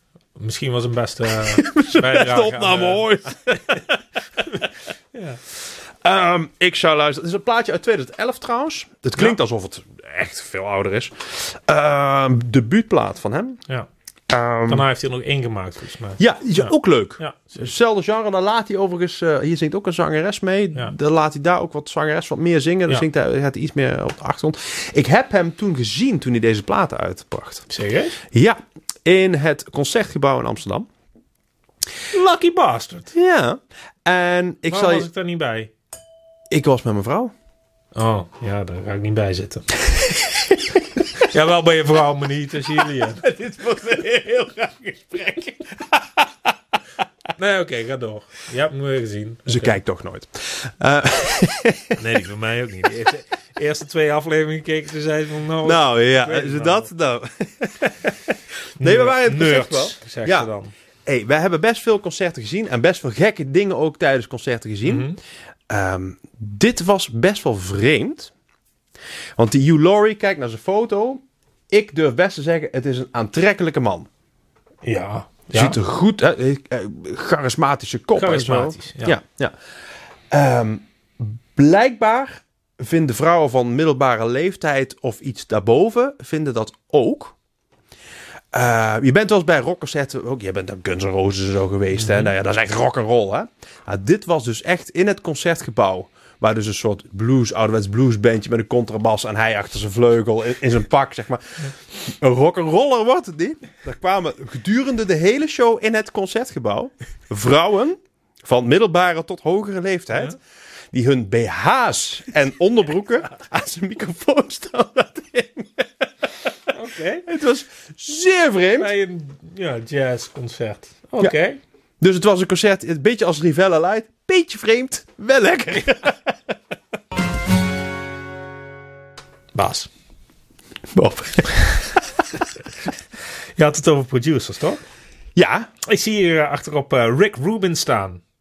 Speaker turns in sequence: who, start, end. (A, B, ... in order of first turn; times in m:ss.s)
0:00.4-0:03.1 A
0:01.4-0:04.6 B
0:04.5-0:05.4 A
0:05.6-0:13.6 B
0:14.3-0:14.9 B
0:14.7-0:17.7 A
0:16.2-0:27.6 B
0:27.7-0:28.2 A
0:28.3-0:30.9 B
0:32.1-0:33.1 A
0:33.1-0:35.1 B
0:34.7-0:35.7 A
0:36.5-0:37.3 B
0:37.9-0:39.8 A
0:40.5-0:40.8 B
0:41.1-0:43.2 A
0:42.8-0:46.5 B
0:47.4-0:49.8 A
0:49.4-0:52.0 B
0:52.0-0:56.9 A
0:55.6-1:00.5 B
0:58.8-1:00.7 A
1:01.0-1:05.1 B
1:04.8-1:05.2 A
1:05.7-1:08.3 B
1:09.4-1:14.1 B
1:14.8-1:15.8 A
1:15.5-1:19.5 B
1:18.2-1:19.2 A
1:20.3-1:27.4 B
1:28.5-1:50.4 B
1:32.0-1:32.3 A
1:50.9-1:56.5 B
1:56.7-1:57.3 A
1:57.2-1:58.9 B
1:58.8-2:01.6 A
2:02.0-2:06.4 B
2:09.5-2:09.9 A
2:10.9-2:12.2 B
2:13.6-2:14.8 A
2:15.3-2:15.7 B
2:15.8-2:18.2 A